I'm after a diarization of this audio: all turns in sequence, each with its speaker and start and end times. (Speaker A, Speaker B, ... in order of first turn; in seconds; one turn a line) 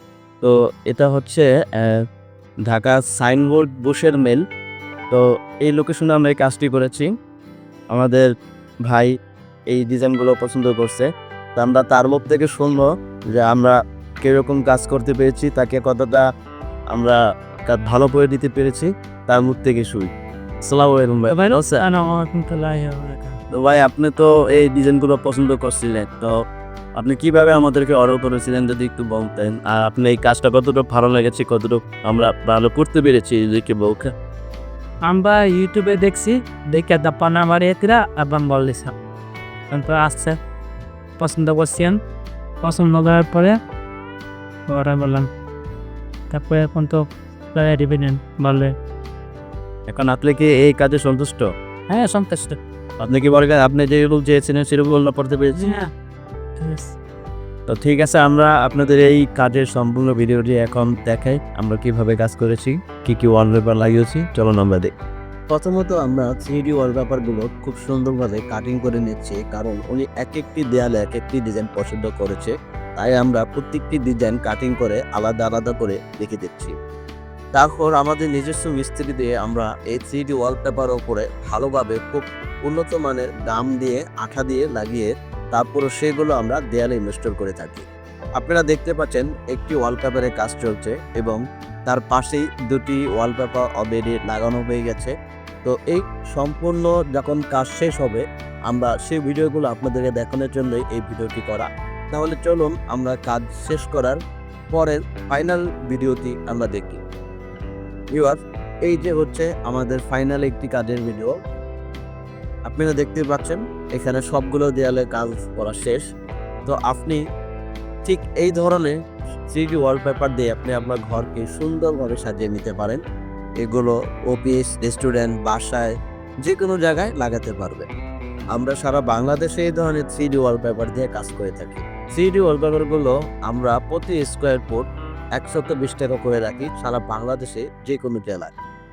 Speaker A: 0.4-2.0
Speaker A: 2.7-4.4
Speaker A: 5.1-7.1
Speaker A: 7.9-8.3
Speaker A: 8.9-9.1
Speaker A: 9.7-16.2
Speaker A: 16.9-20.1
Speaker A: 20.6-21.8
Speaker B: 21.3-23.4
Speaker A: 23.5-26.3
Speaker A: 27.0-34.1
Speaker B: 35.0-38.9
Speaker B: 39.7-40.4
Speaker B: 41.2-42.0
Speaker B: 42.6-43.5
Speaker B: 44.7-45.3
Speaker B: 46.3-48.7
Speaker A: 49.9-51.5
Speaker B: 51.9-52.6
Speaker A: 53.0-55.6
Speaker B: 55.5-55.9
Speaker B: 56.6-56.9
Speaker A: 57.7-64.9
Speaker A: 65.5-76.7
Speaker A: 77.5-87.8
Speaker A: 88.4-95.1
Speaker A: 95.6-104.2
Speaker A: 104.7-107.0
Speaker A: 108.1-111.4
Speaker A: 112.7-116.0
Speaker A: 116.7-117.2
Speaker A: 118.0-119.0
Speaker A: 119.5-123.0
Speaker A: 123.6-127.8
Speaker A: 128.5-134.8
Speaker A: 135.3-138.5